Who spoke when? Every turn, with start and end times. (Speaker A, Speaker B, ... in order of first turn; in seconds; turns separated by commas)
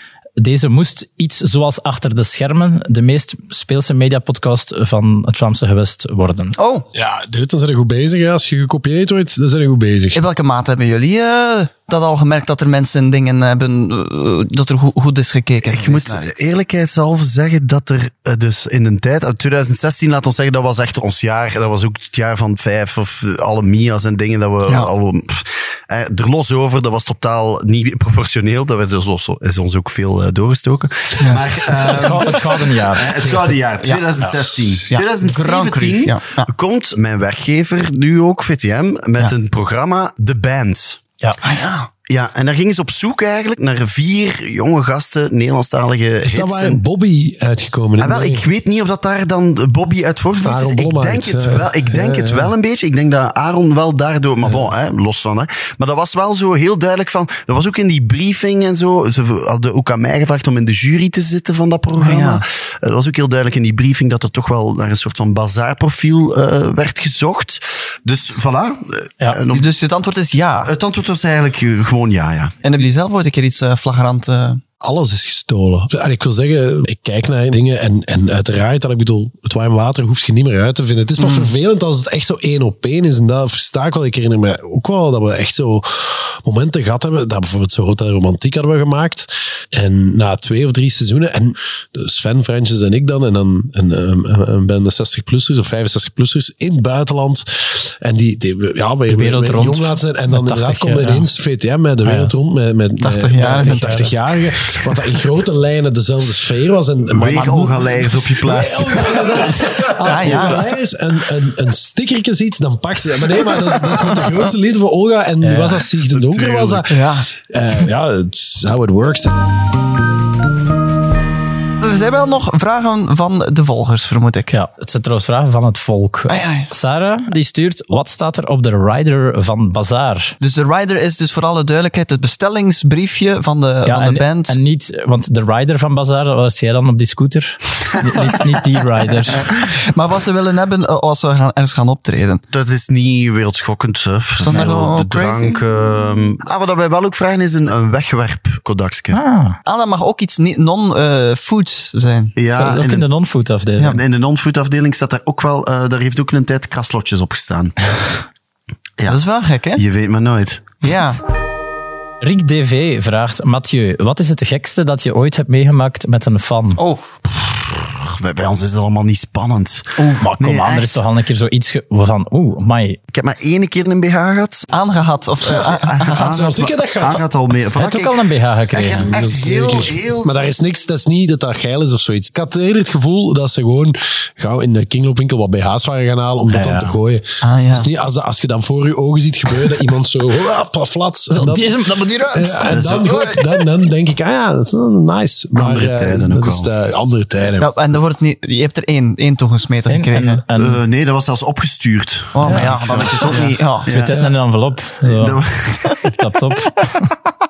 Speaker A: 0.4-6.6, Speaker B: 6.6-6.8, Speaker C: 6.9-10.2, Speaker B: 10.1-16.4, Speaker D: 15.7-41.0, Speaker B: 31.2-31.4, Speaker A: 31.8-33.3, Speaker B: 34.9-36.5, Speaker B: 41.4-41.9, Speaker D: 42.1-46.8, Speaker C: 46.2-48.5, Speaker D: 48.0-69.7, Speaker C: 50.4-52.5, Speaker B: 62.0-62.4, Speaker B: 69.5-70.7, Speaker D: 70.6-72.5, Speaker B: 72.6-74.6, Speaker C: 74.8-119.3, Speaker B: 81.2-81.5, Speaker A: 99.1-101.3, Speaker A: 102.0-102.3, Speaker B: 103.0-104.2, Speaker A: 103.4-104.1, Speaker D: 107.1-109.6, Speaker B: 110.0-110.6, Speaker A: 115.4-115.9, Speaker D: 116.1-116.9, Speaker B: 116.9-117.3, Speaker B: 121.8-124.5, Speaker A: 124.5-130.3, Speaker B: 126.3-126.7, Speaker B: 130.4-134.6, Speaker A: 133.8-139.5, Speaker B: 139.3-142.4, Speaker D: 142.5-149.2, Speaker B: 144.4-145.6, Speaker A: 149.1-149.6, Speaker B: 149.7-152.3, Speaker D: 152.4-153.1, Speaker A: 152.6-154.0, Speaker D: 153.8-157.8, Speaker B: 159.1-159.8, Speaker D: 159.8-160.8, Speaker B: 160.8-161.2, Speaker A: 162.2-166.8, Speaker B: 166.8-167.0, Speaker D: 167.3-171.0, Speaker B: 170.0-170.2, Speaker A: 170.2-173.0, Speaker D: 173.1-174.7, Speaker B: 174.7-176.3, Speaker D: 175.5-180.3, Speaker C: 176.2-177.3, Speaker A: 177.8-179.1, Speaker C: 178.9-191.8, Speaker A: 186.5-187.0, Speaker B: 187.4-187.9, Speaker A: 191.3-192.8, Speaker C: 192.3-197.7, Speaker D: 192.7-193.2, Speaker D: 195.6-196.7, Speaker B: 197.6-200.4, Speaker A: 199.9-200.8, Speaker D: 200.6-204.3, Speaker B: 202.3-204.3, Speaker A: 202.4-205.4, Speaker D: 205.0-206.0, Speaker A: 206.0-207.1